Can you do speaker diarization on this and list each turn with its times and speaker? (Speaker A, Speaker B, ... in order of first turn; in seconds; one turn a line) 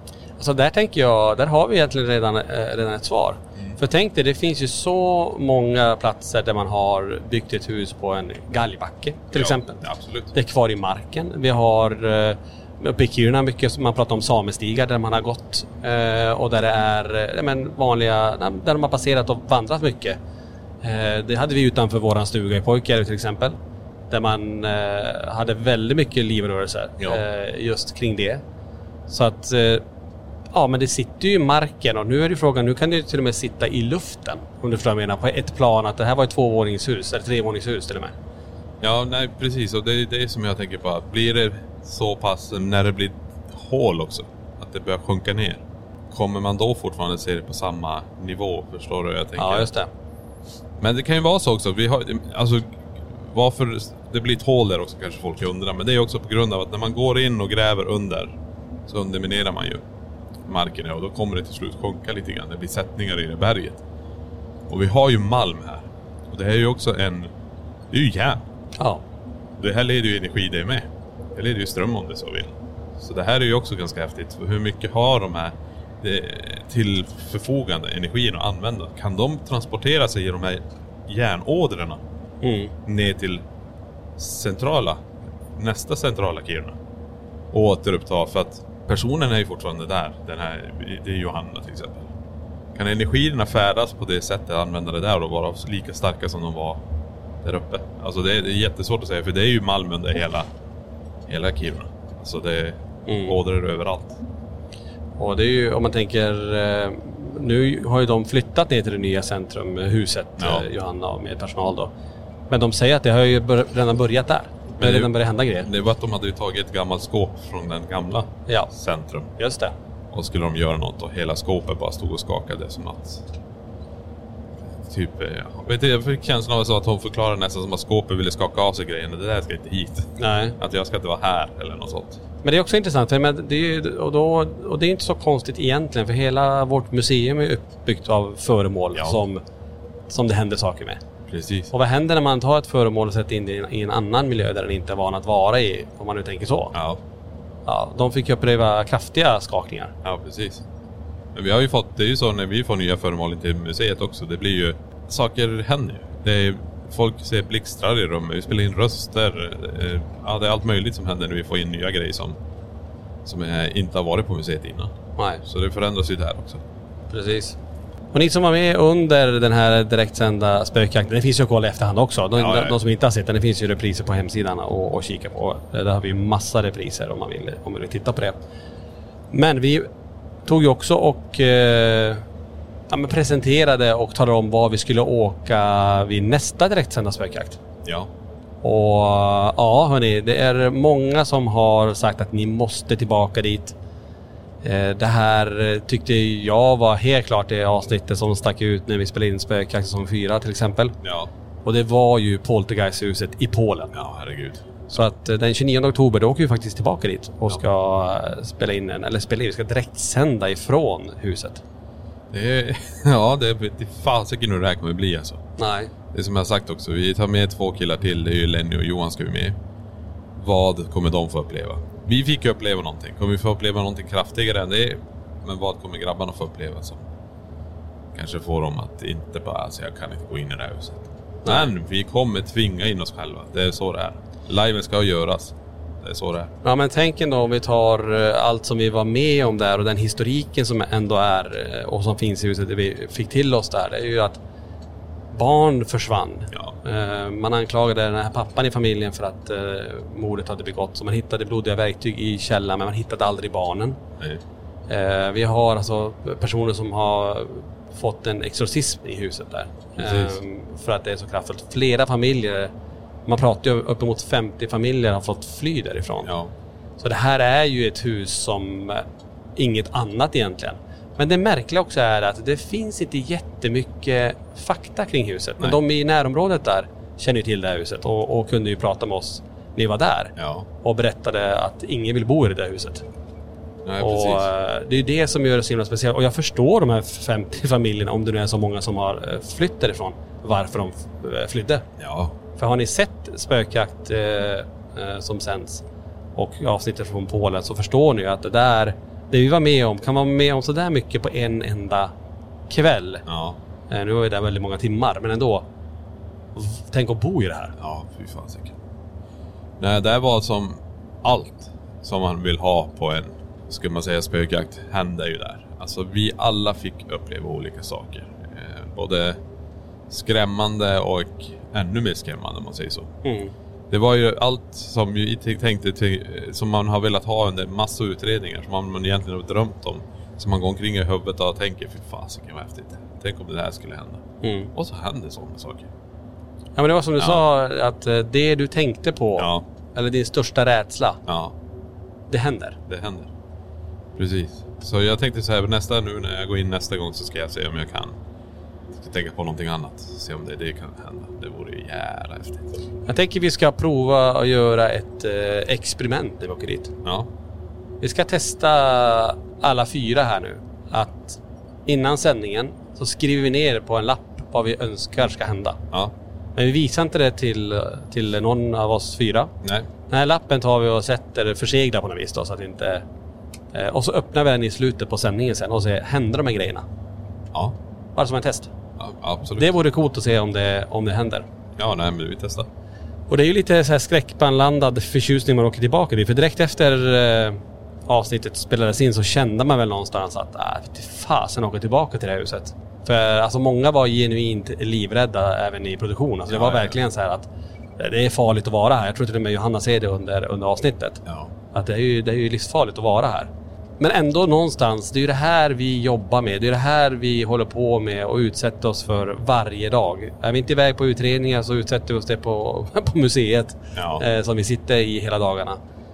Speaker A: 0.4-9.8
Speaker B: 9.3-10.3
Speaker A: 10.3-20.2
Speaker A: 20.8-23.5
Speaker A: 24.1-28.4
Speaker A: 29.1-29.8
Speaker A: 30.5-38.1
Speaker B: 38.8-49.7
Speaker A: 49.4-49.9
Speaker B: 50.8-52.7
Speaker B: 53.2-58.3
Speaker B: 58.9-59.8
Speaker B: 60.5-63.8
Speaker B: 64.7-67.3
Speaker B: 67.9-68.4
Speaker A: 68.8-69.0
Speaker B: 69.6-82.0
Speaker A: 82.4-82.7
Speaker B: 82.8-83.4
Speaker B: 84.2-85.0
Speaker B: 85.5-86.8
Speaker B: 87.5-92.1
Speaker B: 92.7-96.8
Speaker B: 97.4-100.5
Speaker B: 101.3-104.2
Speaker A: 103.1-103.3
Speaker A: 105.2-111.9
Speaker B: 110.4-110.6
Speaker A: 112.5-115.7
Speaker B: 114.8-115.1
Speaker B: 115.6-119.3
Speaker A: 119.4-119.7
Speaker B: 120.1-123.2
Speaker B: 124.7-132.2
Speaker A: 130.2-130.6
Speaker A: 132.4-139.4
Speaker A: 140.1-141.0
Speaker B: 141.3-141.7
Speaker A: 141.7-146.7
Speaker B: 146.7-147.0
Speaker A: 147.7-149.9
Speaker B: 150.0-150.6
Speaker B: 151.3-162.3
Speaker B: 163.2-166.6
Speaker A: 167.1-167.6
Speaker A: 168.1-178.4
Speaker B: 172.3-172.8
Speaker A: 179.3-179.9
Speaker A: 180.4-182.2
Speaker A: 182.9-187.6
Speaker A: 188.6-193.7
Speaker A: 194.6-200.9
Speaker B: 201.0-201.3
Speaker A: 201.6-203.9
Speaker B: 203.9-205.0
Speaker A: 204.9-211.6
Speaker B: 212.3-215.4
Speaker A: 215.6-215.9
Speaker B: 216.1-219.6
Speaker B: 220.4-227.0
Speaker B: 228.1-236.5
Speaker A: 231.4-231.7
Speaker A: 236.6-244.4
Speaker A: 245.3-254.0
Speaker A: 254.9-262.7
Speaker B: 260.0-260.4
Speaker A: 263.2-266.3
Speaker B: 266.2-266.5
Speaker A: 267.0-269.0
Speaker A: 269.6-283.0
Speaker B: 280.4-280.7
Speaker B: 283.8-284.5
Speaker A: 284.0-291.8
Speaker B: 292.0-292.4
Speaker A: 292.6-295.8
Speaker A: 296.3-302.1
Speaker A: 302.7-303.2
Speaker B: 303.3-303.6
Speaker A: 303.9-305.6
Speaker A: 306.5-307.7
Speaker B: 307.8-308.8
Speaker B: 309.8-319.4
Speaker B: 320.1-323.1
Speaker A: 323.2-323.5
Speaker B: 323.9-334.2
Speaker A: 334.4-334.7
Speaker B: 334.7-335.9
Speaker A: 336.8-341.2
Speaker B: 337.2-337.4
Speaker B: 339.4-339.6
Speaker B: 341.3-341.5
Speaker A: 342.3-342.8
Speaker B: 342.9-343.3
Speaker B: 344.2-348.1
Speaker B: 348.9-352.8
Speaker A: 353.1-356.9
Speaker B: 357.0-357.3
Speaker A: 358.0-365.8
Speaker A: 366.5-369.5
Speaker A: 370.1-373.0
Speaker A: 373.7-376.9
Speaker A: 378.1-378.7
Speaker B: 379.0-379.7
Speaker A: 379.6-381.4
Speaker B: 381.8-382.7
Speaker A: 383.3-415.8
Speaker B: 396.5-396.9
Speaker B: 401.2-401.5
Speaker B: 413.9-414.2